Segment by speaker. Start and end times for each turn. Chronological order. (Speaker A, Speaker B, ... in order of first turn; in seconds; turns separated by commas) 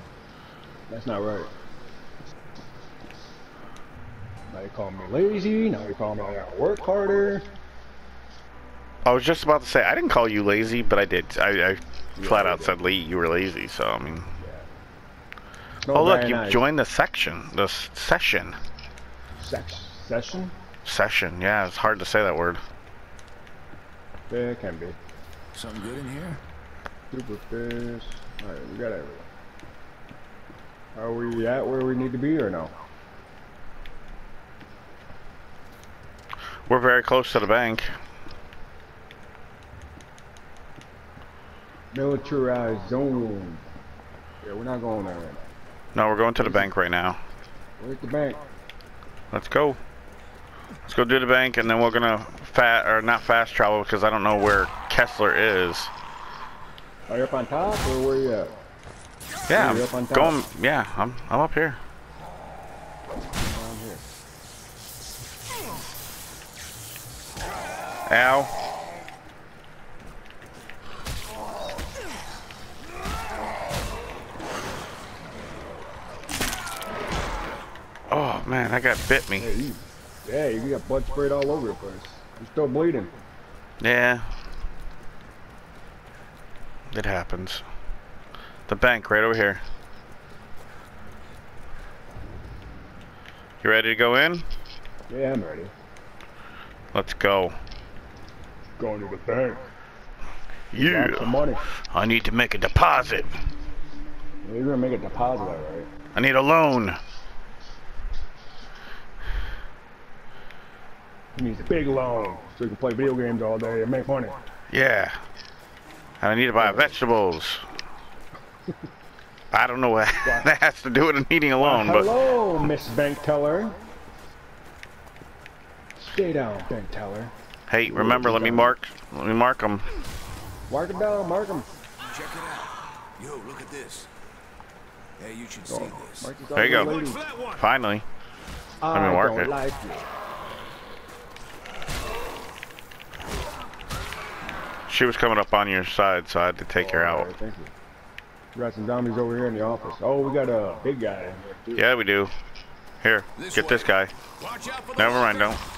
Speaker A: 0.9-1.5, Speaker A: 4.5-7.5, Speaker B: 9.1-14.3, Speaker A: 12.2-12.8, Speaker A: 14.4-14.7, Speaker A: 15.8-16.7, Speaker B: 15.9-18.6, Speaker A: 19.4-20.6, Speaker B: 20.9-22.6, Speaker A: 24.3-25.0, Speaker C: 25.5-26.4, Speaker A: 27.1-29.3, Speaker A: 30.9-32.8, Speaker B: 36.7-37.9, Speaker A: 41.9-43.6, Speaker A: 44.4-45.5, Speaker B: 46.0-47.2, Speaker A: 46.4-46.7, Speaker A: 47.8-48.5, Speaker B: 49.3-49.8, Speaker B: 50.9-55.9, Speaker A: 57.1-58.6, Speaker B: 59.5-61.8, Speaker A: 59.5-60.4, Speaker A: 63.4-64.0, Speaker B: 68.1-68.5, Speaker B: 78.1-79.5, Speaker A: 79.4-83.1, Speaker B: 83.8-84.3, Speaker B: 86.9-87.6, Speaker B: 88.7-89.6, Speaker B: 93.6-94.5, Speaker A: 95.1-95.7, Speaker B: 96.9-97.6, Speaker A: 98.8-99.7, Speaker B: 100.7-103.3, Speaker A: 100.7-101.6, Speaker A: 104.4-105.9, Speaker B: 106.2-107.0, Speaker A: 111.3-114.4, Speaker B: 114.7-115.2, Speaker B: 116.2-117.7, Speaker A: 116.6-117.0, Speaker B: 119.5-122.1, Speaker A: 120.2-120.5, Speaker A: 121.6-123.8, Speaker A: 126.0-127.3, Speaker B: 127.7-129.9, Speaker A: 127.8-128.8, Speaker A: 130.7-131.7, Speaker C: 132.0-134.1, Speaker C: 135.2-137.7, Speaker A: 135.7-137.2, Speaker B: 136.6-137.0, Speaker B: 137.6-138.1, Speaker A: 138.8-140.1, Speaker B: 138.9-139.5, Speaker B: 144.9-147.3, Speaker A: 146.8-147.7, Speaker A: 148.6-151.8, Speaker B: 151.8-152.3, Speaker B: 153.0-154.1, Speaker C: 153.4-155.6, Speaker B: 155.0-155.6